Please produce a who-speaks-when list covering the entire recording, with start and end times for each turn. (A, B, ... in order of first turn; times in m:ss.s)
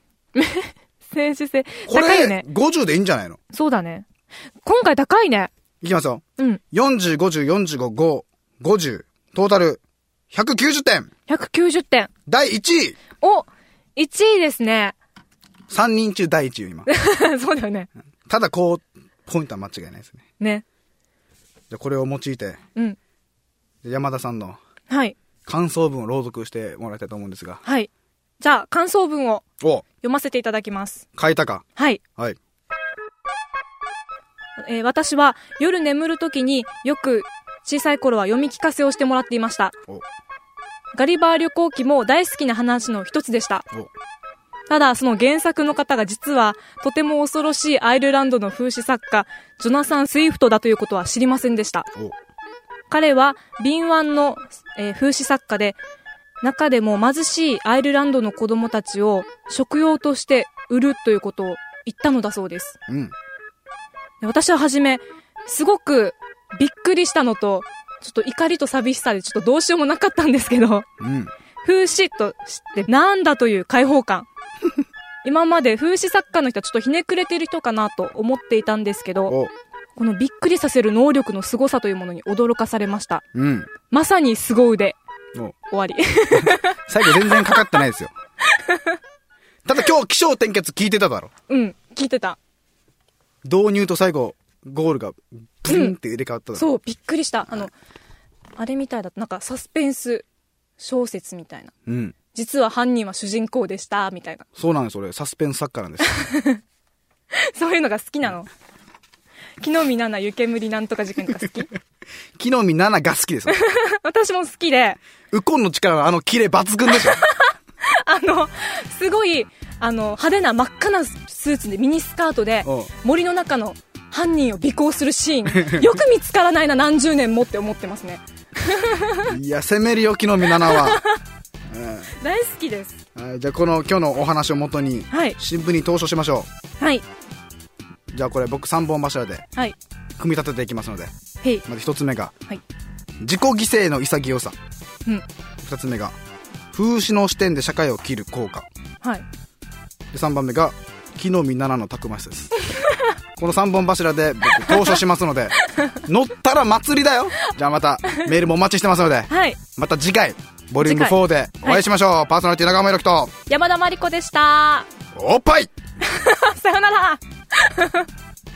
0:00.3-0:02.4 A
0:01.9-0:03.4 B
0:03.5-0:04.0 A
0:04.6-0:05.5 A
0:05.8-0:11.1 B
0:11.3-0:12.1 A
0:12.3-0:13.0 B
0:13.2-0:14.9 A
0:15.7-0:16.9 B
0:16.9-0:17.9 A
0:18.3-0:20.2 B
0:20.4-0:20.6 A
0:21.7-0:22.6 B
0:23.8-0:24.6 B
0:24.9-0:25.2 A
0:25.4-0:27.6 B
0:27.6-0:29.4 A
0:29.6-0:29.8 B
0:30.0-0:31.0 A
0:31.1-0:31.6 B
0:31.8-0:32.0 A
0:34.6-0:39.7 A
0:40.9-0:43.6 A
0:44.7-0:51.9 A
0:52.9-0:55.8 A
0:56.4-1:02.8 A
1:02.9-1:03.1 B
1:04.2-1:10.8 A
1:11.0-1:11.3 B
1:11.6-1:14.3 A
1:15.2-1:19.3 A
1:20.0-1:23.2 A
1:23.3-1:23.7 B
1:23.9-1:25.0 A
1:25.7-1:27.6 A
1:26.3-1:28.1 B
1:28.5-1:29.0 A
1:29.6-1:31.3 B
1:31.5-1:32.4 A
1:33.4-1:36.7 B
1:35.7-1:35.9 A
1:36.5-1:37.7 A
1:38.6-1:40.2 A
1:40.8-1:41.7 A
1:41.9-1:42.2 B
1:42.3-1:44.4 A
1:44.6-1:46.1 B
1:46.1-1:46.6 A
1:47.3-1:48.5 A
1:49.6-1:51.7 A
1:52.4-1:53.6 B
1:53.5-1:55.0 A
1:55.3-1:57.2 B
1:56.9-2:09.3 A
2:02.6-2:02.9 B
2:05.5-2:06.0 B
2:09.3-2:11.0 B
2:10.5-2:11.2 A
2:11.7-2:12.1 B
2:12.1-2:13.0 A
2:13.1-2:16.5 B
2:15.1-2:15.4 A
2:18.1-2:19.4 B
2:20.2-2:21.1 B
2:21.6-2:22.3 B
2:23.2-2:24.6 B
2:25.6-2:26.1 B
2:26.7-2:28.6 B
2:30.1-2:32.5 B
2:33.4-2:43.3 B
2:34.7-2:35.0 A
2:39.3-2:39.6 A
2:40.8-2:41.8 A
2:43.5-2:44.9 A
2:45.1-2:45.7 B
2:46.0-2:48.1 A